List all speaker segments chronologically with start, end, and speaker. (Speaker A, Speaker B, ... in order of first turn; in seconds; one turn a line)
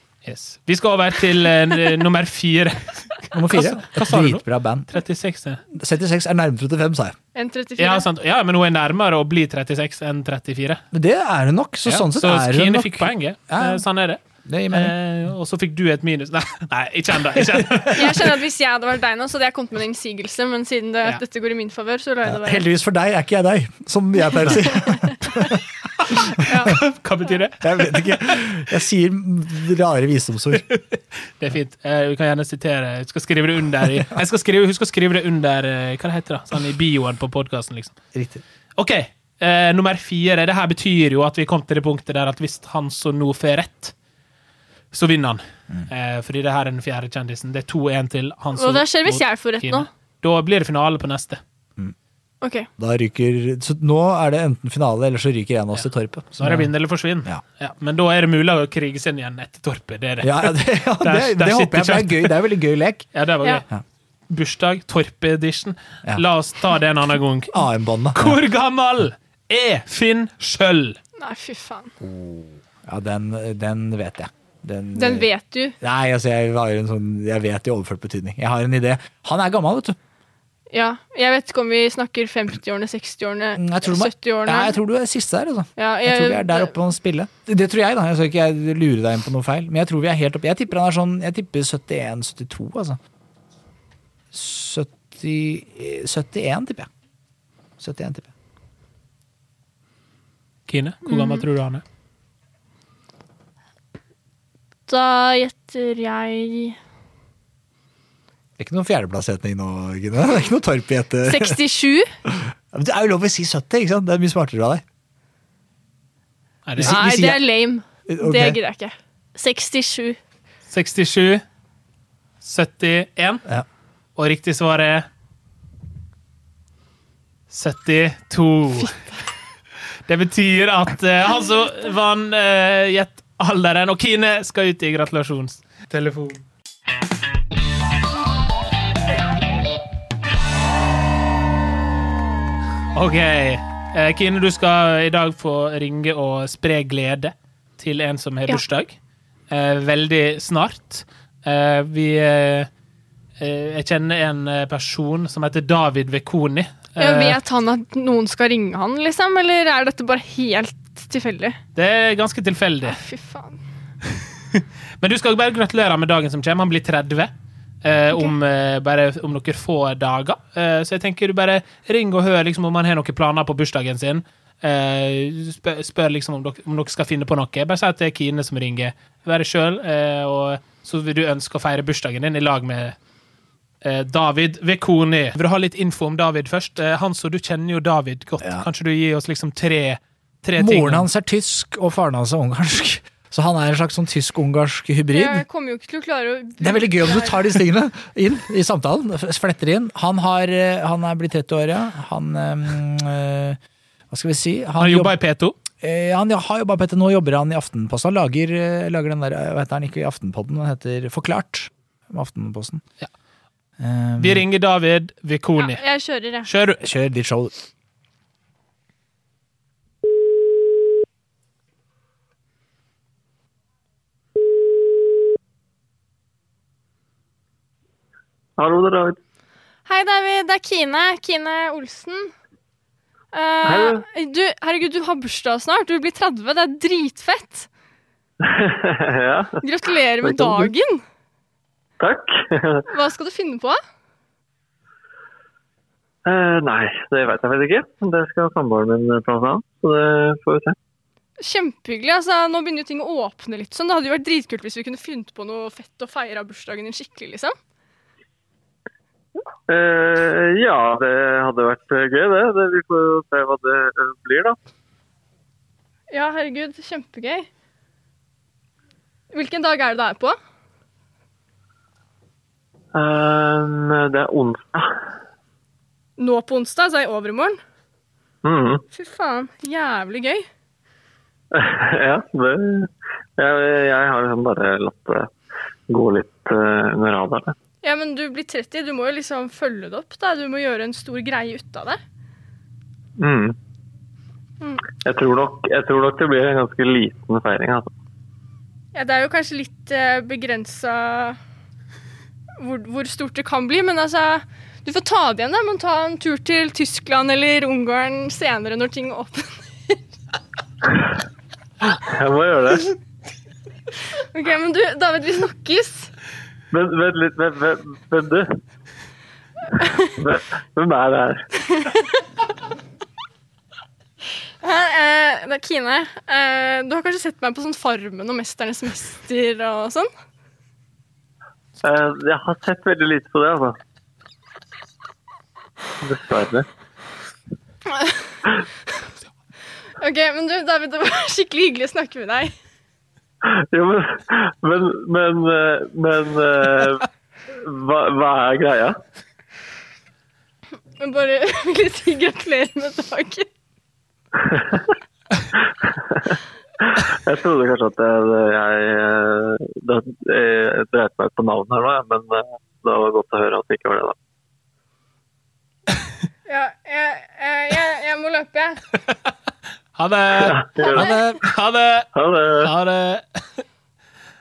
Speaker A: 0.2-5.6
Speaker B: 3.3-4.9
Speaker B: 5.7-7.2
Speaker C: 7.3-8.1
Speaker A: 7.8-10.8
Speaker B: 10.9-13.8
Speaker A: 11.8-18.3
Speaker B: 14.4-14.9
Speaker B: 17.3-18.3
Speaker C: 17.9-22.7
Speaker B: 22.2-26.8
Speaker A: 26.0-28.6
Speaker C: 26.4-26.8
Speaker B: 27.6-30.7
Speaker A: 30.7-38.0
Speaker B: 38.1-38.4
Speaker A: 38.8-43.9
Speaker A: 44.9-51.4
Speaker C: 48.6-49.9
Speaker C: 52.4-52.7
Speaker B: 52.8-56.7
Speaker A: 56.4-62.4
Speaker B: 60.2-63.1
Speaker A: 63.1-63.7
Speaker A: 64.3-67.6
Speaker B: 67.5-68.4
Speaker A: 68.1-71.0
Speaker C: 71.2-72.0
Speaker B: 72.0-75.3
Speaker C: 75.0-75.8
Speaker B: 75.8-80.0
Speaker C: 80.7-84.8
Speaker B: 83.6-93.0
Speaker C: 85.8-86.7
Speaker B: 94.3-96.9
Speaker B: 97.8-98.3
Speaker A: 100.7-101.8
Speaker C: 101.1-101.5
Speaker C: 104.9-106.8
Speaker B: 108.6-111.6
Speaker C: 111.2-112.1
Speaker B: 112.2-114.8
Speaker A: 116.7-117.0
Speaker B: 116.8-117.4
Speaker C: 116.8-120.2
Speaker B: 118.1-118.6
Speaker A: 120.7-121.4
Speaker A: 122.4-123.4
Speaker A: 124.2-125.1
Speaker A: 127.5-129.0
Speaker A: 130.1-136.4
Speaker A: 142.9-149.0
Speaker A: 149.5-152.7
Speaker A: 153.4-157.4
Speaker C: 157.0-161.6
Speaker A: 161.8-163.0
Speaker C: 162.8-163.6
Speaker A: 164.5-167.3
Speaker A: 167.8-183.0
Speaker A: 183.8-191.1
Speaker B: 190.6-195.4
Speaker C: 195.1-197.6
Speaker B: 196.6-203.6
Speaker B: 204.1-205.1
Speaker A: 204.8-205.6
Speaker B: 205.8-212.8
Speaker B: 213.8-214.4
Speaker A: 214.2-215.8
Speaker C: 215.6-216.5
Speaker A: 216.4-216.8
Speaker B: 216.8-217.5
Speaker D: 228.6-229.2
Speaker C: 229.9-232.3
Speaker C: 233.3-237.7
Speaker D: 233.7-234.0
Speaker D: 238.4-239.6
Speaker C: 239.6-241.0
Speaker D: 240.2-240.7
Speaker D: 242.0-242.9
Speaker C: 242.9-243.8
Speaker D: 246.3-250.8
Speaker C: 251.4-257.6
Speaker D: 259.7-264.6
Speaker C: 266.1-267.5
Speaker C: 269.3-270.4
Speaker D: 272.9-274.9
Speaker C: 276.2-277.6
Speaker D: 278.4-278.8
Speaker C: 278.9-280.5
Speaker D: 281.5-285.3
Speaker D: 285.9-287.6
Speaker C: 287.8-292.0
Speaker D: 293.2-293.6
Speaker D: 295.0-297.9
Speaker C: 298.9-301.4
Speaker C: 302.6-310.0
Speaker D: 312.0-313.0
Speaker C: 314.3-316.1
Speaker D: 316.7-318.5
Speaker C: 319.8-320.1
Speaker D: 320.2-321.5
Speaker C: 321.7-322.2
Speaker C: 324.6-330.1
Speaker D: 331.8-333.8
Speaker D: 336.0-336.7
Speaker C: 337.9-338.2
Speaker C: 340.0-342.5
Speaker D: 343.4-347.1
Speaker D: 347.6-349.0
Speaker C: 351.0-353.5
Speaker D: 354.4-354.9
Speaker D: 355.6-364.2
Speaker C: 366.5-368.8
Speaker A: 370.0-373.6
Speaker D: 370.3-371.1
Speaker B: 370.9-371.4
Speaker D: 372.1-372.7